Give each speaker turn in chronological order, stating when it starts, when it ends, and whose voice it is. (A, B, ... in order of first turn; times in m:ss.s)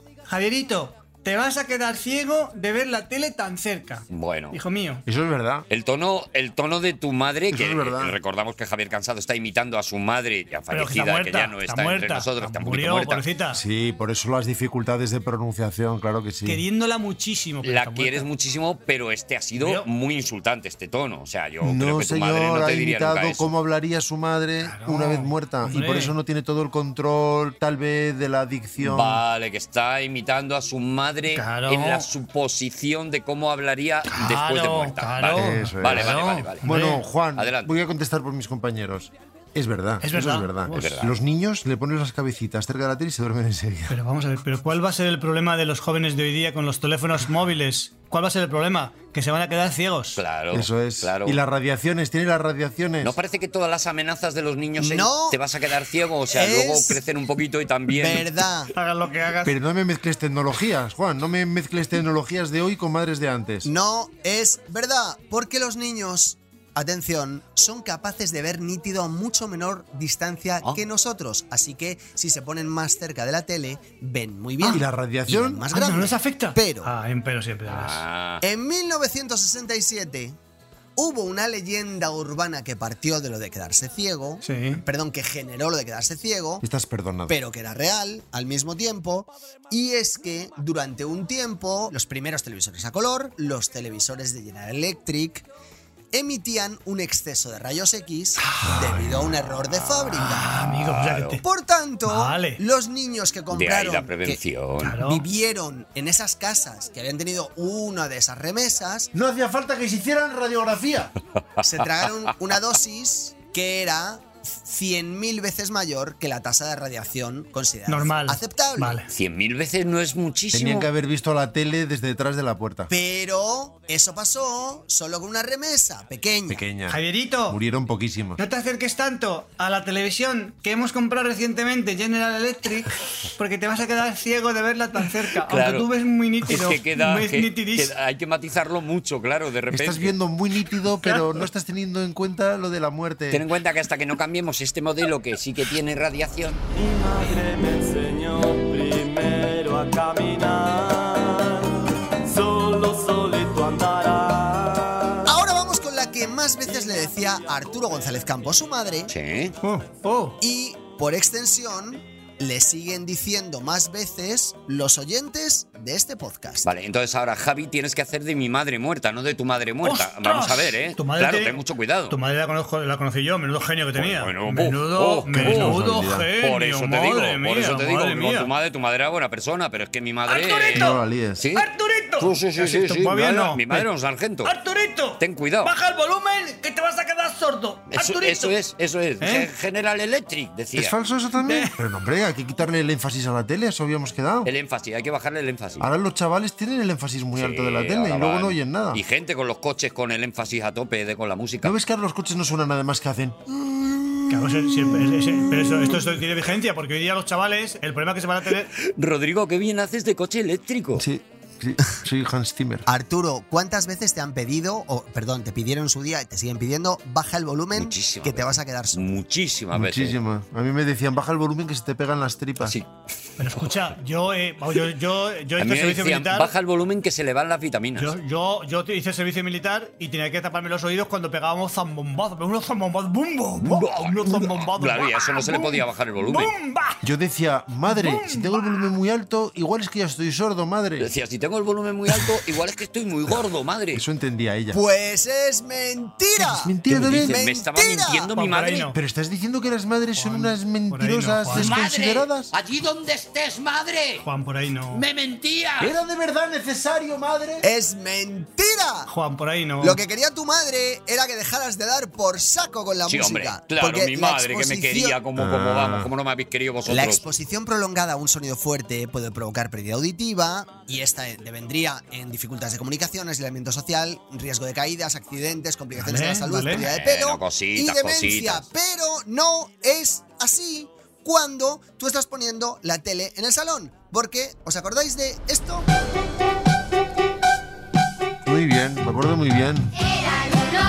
0:00.3-0:05.0 A
0:04.1-0:04.6 B
0:05.1-0:05.7 C
0:05.7-0:13.2 B
0:07.5-0:08.2 C
0:10.7-0:13.6 A
0:13.5-0:16.6 C
0:16.4-0:18.3 A
0:17.6-0:23.5 B
0:19.6-0:19.9 A
0:21.6-0:29.2 C
0:24.6-0:26.2 A
0:28.8-0:36.7 B
0:31.3-0:32.1 A
0:34.1-0:37.0 A
0:35.3-0:44.0 C
0:37.4-0:37.8 B
0:40.0-0:40.9 A
0:40.7-0:41.2 B
0:43.9-0:50.2 A
0:50.2-0:51.4 B
0:50.5-0:53.2 C
0:53.0-0:58.3 B
0:54.8-0:55.4 D
0:56.3-0:57.0 D
0:57.9-0:58.7 D
0:58.7-0:59.6 A
0:59.4-1:03.7 C
1:03.6-1:16.9 D
1:14.6-1:15.7 C
1:15.7-1:18.0 A
1:17.7-1:18.4 B
1:18.4-1:20.4 D
1:21.0-1:26.6 D
1:24.4-1:24.8 A
1:26.6-1:27.4 C
1:27.3-1:35.5 D
1:36.1-1:40.5 D
1:38.4-1:39.1 A
1:39.5-1:41.4 B
1:40.2-1:41.4 A
1:41.4-1:44.4 D
1:42.1-1:42.6 A
1:43.5-1:45.0 B
1:44.8-1:45.3 A
1:45.0-1:49.1 D
1:49.1-1:51.1 C
1:51.6-1:52.1 B
1:51.6-1:59.0 D
1:57.9-1:59.1 A
1:59.1-2:00.9 B
2:00.5-2:02.9 C
2:02.9-2:06.6 D
2:06.5-2:08.4 C
2:06.9-2:07.6 A
2:08.4-2:17.9 A
2:15.4-2:15.9 B
2:16.5-2:20.2 B
2:19.7-2:23.5 C
2:21.0-2:21.5 A
2:23.3-2:26.6 B
2:26.8-2:35.3 E
2:35.3-2:39.1 D
2:39.1-2:39.6 B
2:39.6-2:40.4 A
2:40.4-2:46.7 D
2:46.6-2:52.2 B
2:49.8-2:58.5 A
2:54.0-2:55.8 B
2:55.3-2:56.3 C
2:56.4-3:04.5 B
3:00.3-3:01.0 A
3:00.7-3:01.5 C
3:01.6-3:03.9 A
3:04.4-3:08.5 A
3:05.2-3:05.7 B
3:07.9-3:11.0 B
3:09.2-3:09.5 A
3:10.8-3:14.5 C
3:11.4-3:11.8 A
3:14.4-3:15.9 B
3:15.8-3:19.0 C
3:17.4-3:21.8 B
3:21.6-3:26.2 C
3:24.3-3:28.7 A
3:28.7-3:31.1 B
3:31.0-3:32.9 C
3:32.9-3:39.2 D
3:37.7-3:40.2 B
3:39.7-3:42.8 C
3:42.6-3:42.9 B
3:43.4-3:46.5 A
3:45.6-3:48.2 B
3:48.0-3:57.0 A
3:53.6-3:56.5 B
3:57.0-4:01.1 C
3:57.9-3:58.9 A
4:01.0-4:04.0 B
4:03.9-4:04.8 C
4:04.7-4:08.3 D
4:06.4-4:07.4 C
4:06.9-4:08.9 B
4:08.4-4:09.0 A
4:08.9-4:12.5 C
4:10.2-4:11.7 A
4:11.5-4:14.2 B
4:14.2-4:15.0 A
4:14.9-4:16.0 B
4:15.8-4:17.6 C
4:17.6-4:19.1 D
4:19.1-4:20.0 A
4:19.8-4:25.2 D
4:23.1-4:27.2 B
4:25.4-4:26.1 C
4:26.9-4:45.9 D
4:36.0-4:36.8 A
4:36.7-4:38.7 B
4:48.5-4:50.2 C